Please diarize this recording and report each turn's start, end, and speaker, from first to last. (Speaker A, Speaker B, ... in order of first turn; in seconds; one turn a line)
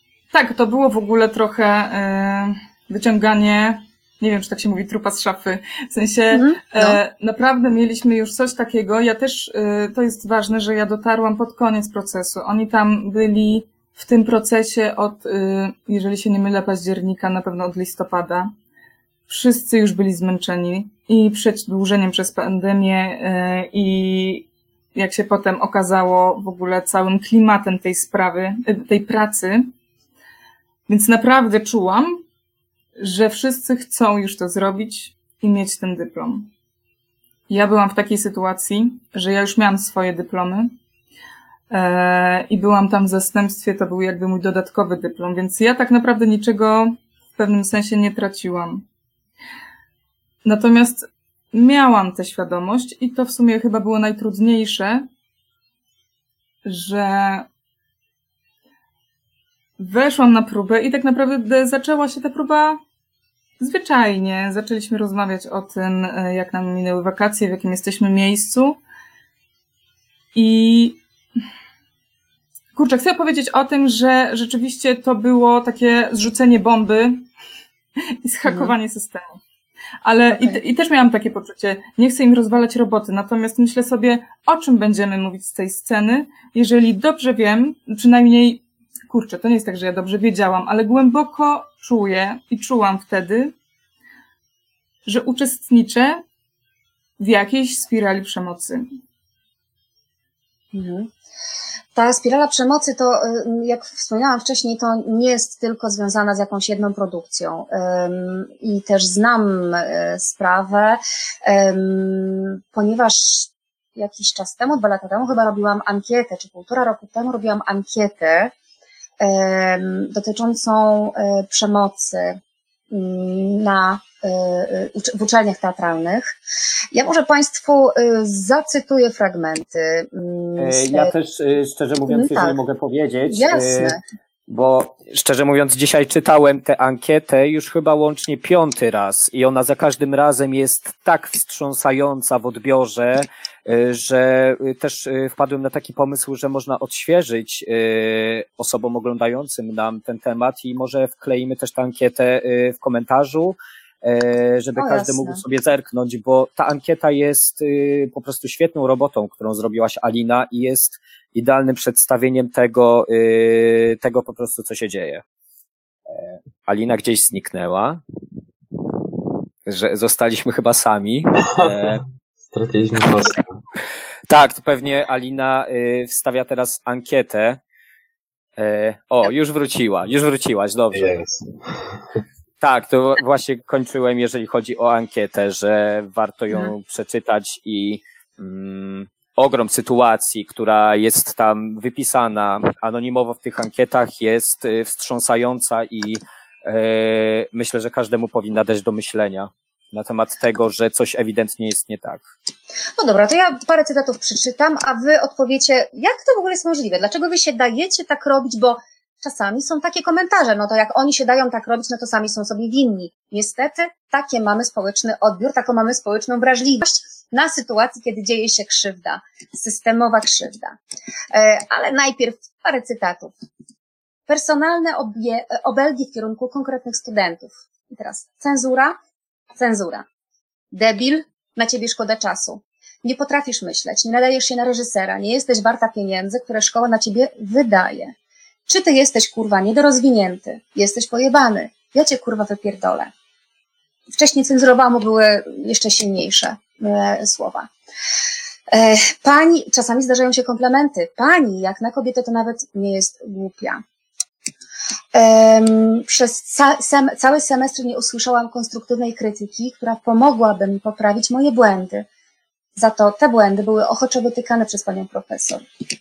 Speaker A: 0.3-18.5
Speaker B: 6.3-7.0
Speaker A: 19.3-29.7
Speaker A: 30.9-32.2
Speaker A: 33.0-36.5
Speaker A: 37.5-40.7
Speaker A: 41.7-48.9
Speaker A: 50.4-55.1
Speaker A: 56.6-57.5
Speaker A: 59.8-62.8
Speaker A: 63.6-68.8
Speaker A: 70.3-71.0
Speaker A: 72.8-77.3
Speaker A: 78.2-79.4
Speaker B: 78.5-78.7
Speaker A: 80.0-93.5
Speaker A: 95.1-96.2
Speaker A: 97.2-98.9
Speaker B: 100.7-101.1
Speaker B: 102.0-118.5
Speaker B: 119.2-122.4
Speaker B: 122.9-126.3
Speaker B: 126.9-131.1
Speaker C: 130.6-134.0
Speaker B: 132.1-132.6
Speaker B: 133.3-134.0
Speaker C: 134.5-165.2
Speaker B: 154.8-155.4
Speaker C: 166.1-168.0
Speaker C: 169.7-172.0
Speaker D: 171.6-173.6
Speaker C: 174.3-177.6
Speaker C: 178.6-181.1
Speaker D: 180.9-182.0
Speaker C: 182.6-202.3
Speaker B: 203.0-220.8
Speaker B: 221.3-223.3
Speaker B: 224.3-229.0
Speaker B: 229.6-230.1
Speaker B: 230.7-238.1
Speaker B: 238.7-243.1
Speaker B: 244.2-247.7
Speaker B: 248.7-253.8
Speaker B: 255.1-262.1
Speaker B: 262.8-265.6